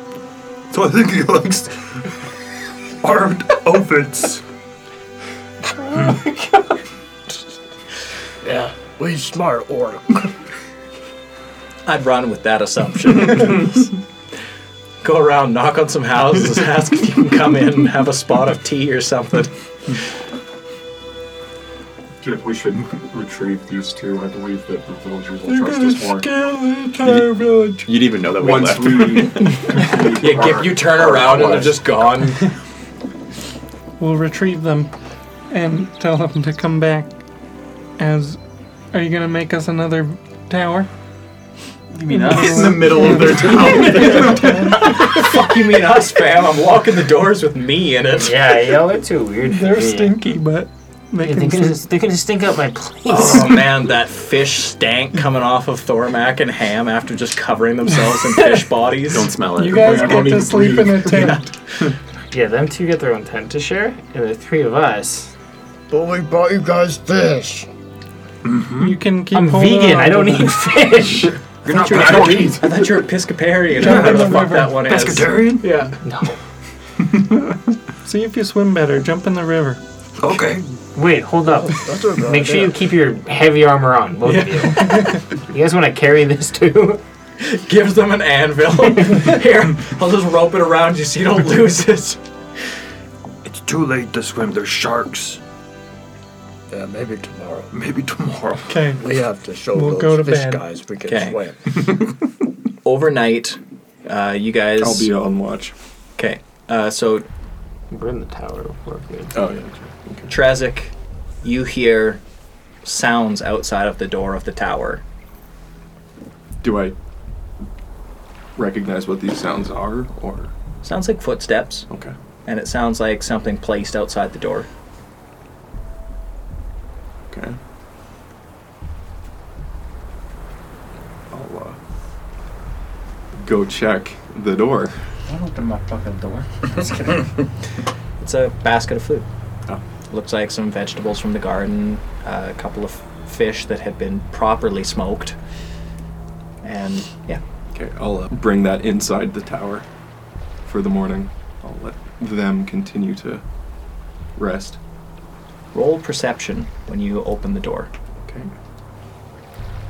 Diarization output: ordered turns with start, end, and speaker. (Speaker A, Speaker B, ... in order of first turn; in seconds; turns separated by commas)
Speaker A: 0.7-2.1, Speaker A: 3.0-4.4, Speaker B: 8.4-10.3, Speaker C: 11.8-13.9, Speaker C: 15.0-20.1, Speaker D: 22.3-26.2, Speaker E: 25.4-27.9, Speaker F: 27.0-27.3, Speaker F: 27.8-29.8, Speaker D: 28.3-31.8, Speaker C: 30.0-32.4, Speaker E: 34.0-34.9, Speaker E: 35.5-37.1, Speaker E: 38.0-38.4, Speaker E: 38.9-40.9, Speaker C: 42.1-42.6, Speaker E: 42.1-45.1, Speaker F: 42.3-44.5, Speaker D: 42.3-44.5, Speaker C: 44.7-48.4, Speaker G: 48.2-50.2, Speaker E: 49.5-51.8, Speaker G: 51.2-53.7, Speaker C: 53.1-59.4, Speaker F: 59.1-60.6, Speaker E: 59.5-61.4, Speaker C: 61.0-61.9, Speaker G: 62.3-65.3, Speaker B: 65.9-67.7, Speaker A: 68.4-69.0, Speaker E: 68.8-70.6, Speaker G: 69.3-71.4, Speaker A: 71.6-72.9, Speaker C: 71.6-76.0, Speaker E: 73.8-74.8, Speaker A: 73.8-75.7, Speaker G: 76.0-76.4, Speaker E: 78.0-79.8, Speaker A: 80.2-80.7, Speaker G: 80.9-87.0, Speaker B: 81.6-82.8, Speaker C: 87.4-92.2, Speaker A: 93.4-95.4, Speaker B: 96.7-97.7, Speaker A: 97.7-98.8, Speaker E: 98.7-99.0, Speaker B: 99.0-101.8, Speaker E: 99.7-100.6, Speaker C: 101.0-101.4, Speaker C: 102.8-105.1, Speaker D: 104.8-105.7, Speaker C: 106.2-107.3, Speaker G: 107.9-109.4, Speaker D: 109.3-110.3, Speaker C: 110.3-112.2, Speaker C: 112.8-115.0, Speaker D: 116.6-117.0, Speaker D: 118.5-120.5, Speaker C: 120.8-121.9, Speaker D: 121.9-122.1, Speaker C: 122.5-124.7, Speaker D: 127.3-127.6, Speaker D: 131.3-131.8, Speaker D: 133.4-135.1, Speaker G: 135.3-137.3, Speaker C: 138.2-139.3, Speaker C: 140.1-145.4, Speaker C: 146.6-147.4, Speaker D: 147.7-149.9, Speaker D: 150.6-153.4, Speaker D: 154.3-154.8, Speaker C: 155.7-157.9